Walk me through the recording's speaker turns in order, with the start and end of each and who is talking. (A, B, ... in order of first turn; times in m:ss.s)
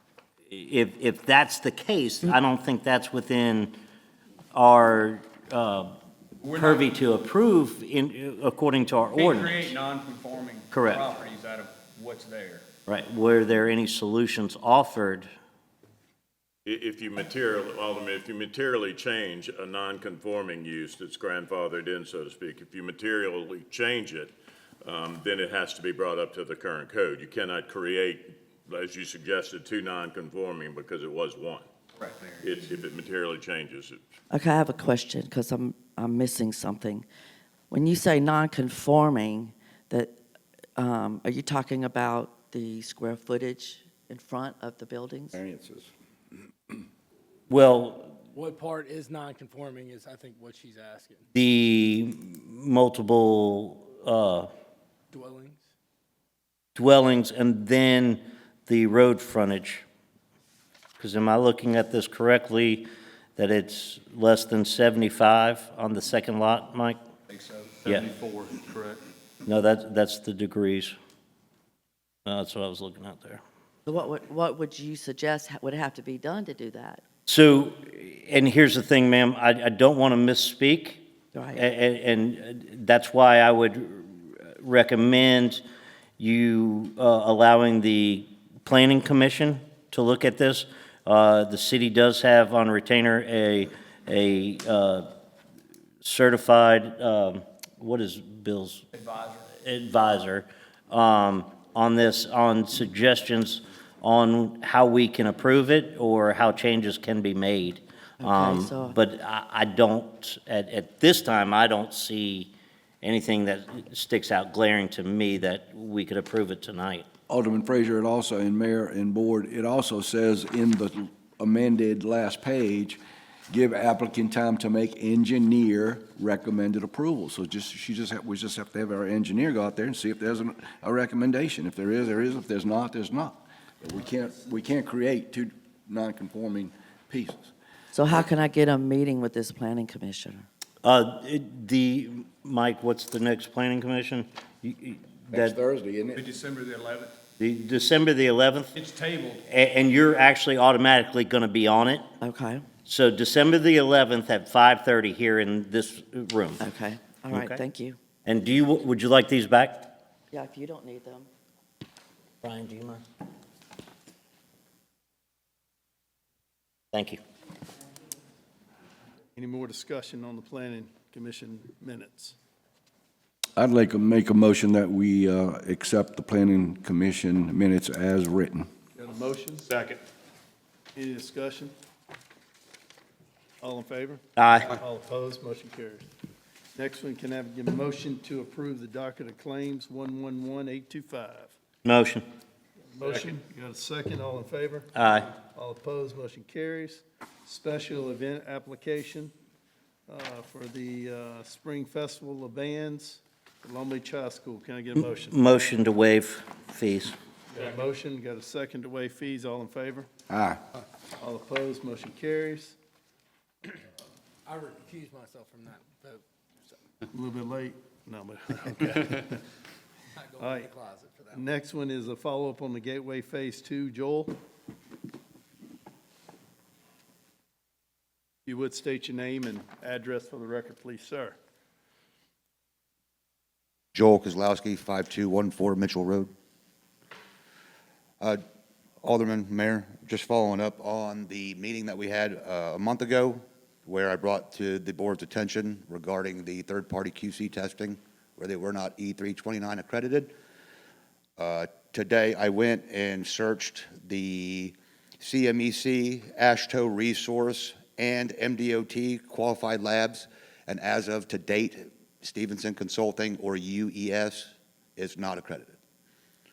0:00.5-0:03.7 A
0:04.5-0:05.9 A
0:06.4-0:06.8 B
0:06.5-0:09.8 A
0:09.1-0:12.7 B
0:10.7-0:11.1 A
0:12.8-0:15.3 A
0:16.6-0:31.7 C
0:32.0-0:32.6 B
0:32.4-0:34.0 C
0:35.3-0:37.0 D
0:37.7-0:40.1 D
0:40.8-0:45.3 D
0:45.3-0:45.9 E
0:47.5-0:48.2 A
0:48.3-0:51.3 F
0:51.3-0:54.5 A
0:55.1-0:55.7 F
0:56.7-0:59.8 A
1:01.0-1:07.0 A
1:07.3-1:09.0 B
1:09.4-1:10.9 A
1:12.2-1:13.4 A
1:13.9-1:14.3 D
1:15.4-1:17.0 D
1:17.3-1:25.6 A
1:26.2-1:35.1 A
1:36.0-1:38.8 A
1:39.0-1:39.4 B
1:39.6-1:57.1 A
1:48.2-1:48.9 D
1:57.3-2:17.5 E
2:17.9-2:20.4 D
2:20.8-2:25.6 A
2:25.3-2:26.3 E
2:26.2-2:27.1 B
2:27.4-2:28.7 A
2:28.7-2:29.4 B
2:29.5-2:32.0 A
2:32.2-2:32.6 D
2:32.8-2:36.6 A
2:36.6-2:38.0 D
2:37.3-2:37.6 G
2:38.2-2:39.9 A
2:40.3-2:41.3 D
2:42.4-2:43.0 A
2:46.9-2:47.2 A
2:49.4-2:52.4 G
2:53.6-2:58.7 E
2:58.9-3:00.0 G
3:00.9-3:01.7 G
3:03.6-3:06.1 G
3:04.4-3:04.8 A
3:06.7-3:11.5 G
3:11.8-3:12.2 A
3:13.0-3:19.3 G
3:15.0-3:15.3 A
3:20.1-3:25.4 G
3:25.0-3:27.1 A
3:27.5-3:30.1 G
3:30.3-3:30.6 E
3:31.2-3:32.8 G
3:34.4-3:36.7 F
3:37.1-3:39.4 G
3:40.2-3:41.5 F
3:40.4-3:40.7 G
3:41.3-3:44.4 G
3:48.5-3:51.4 G
3:53.9-3:56.3 H
3:59.0-4:10.3 H
4:11.4-4:25.8 H